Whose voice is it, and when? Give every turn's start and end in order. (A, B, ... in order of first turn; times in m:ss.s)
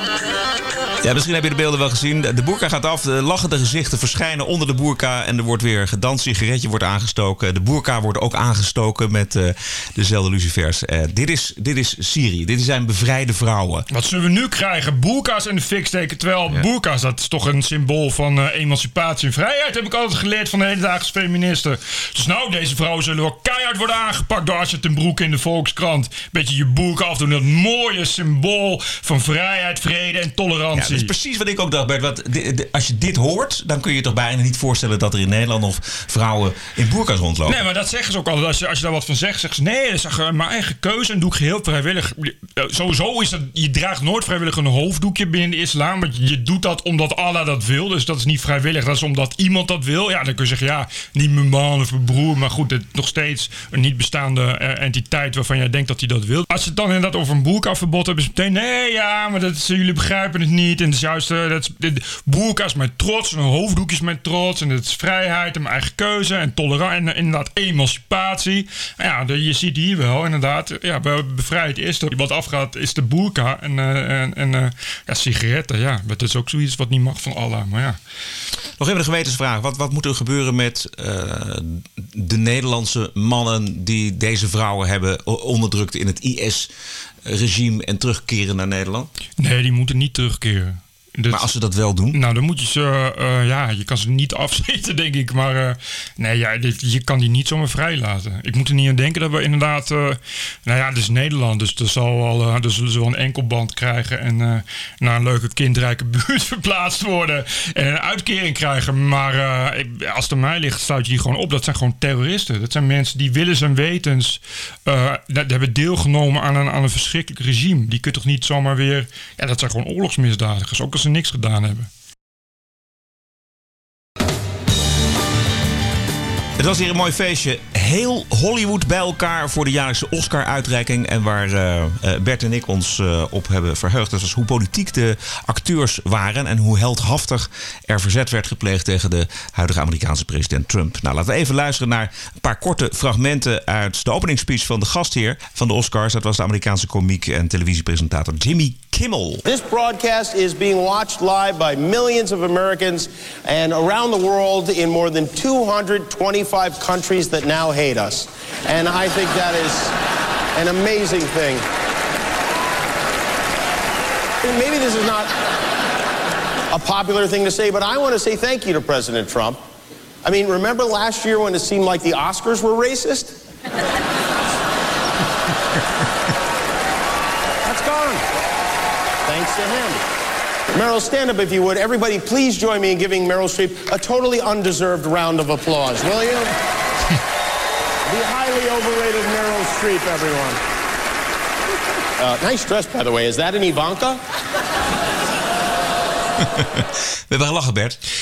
0:01.0-0:13.9 A
0:13.9-0:31.1 B
0:30.8-0:37.6 A
0:37.5-1:18.0 B
1:18.8-1:26.7 A
1:27.2-1:29.1 A
1:29.4-1:31.5 B
1:31.3-1:32.2 A
1:32.1-2:01.9 B
2:06.6-2:29.4 A
2:29.4-2:39.9 C
2:40.5-2:41.6 C
2:44.4-2:45.3 C
2:46.7-2:49.6 C
2:50.2-2:53.4 C
2:57.6-2:58.2 C
2:59.2-3:00.0 C
3:00.7-3:06.5 C
3:08.1-3:10.6 C
3:12.2-3:14.2 C
3:16.4-3:18.0 A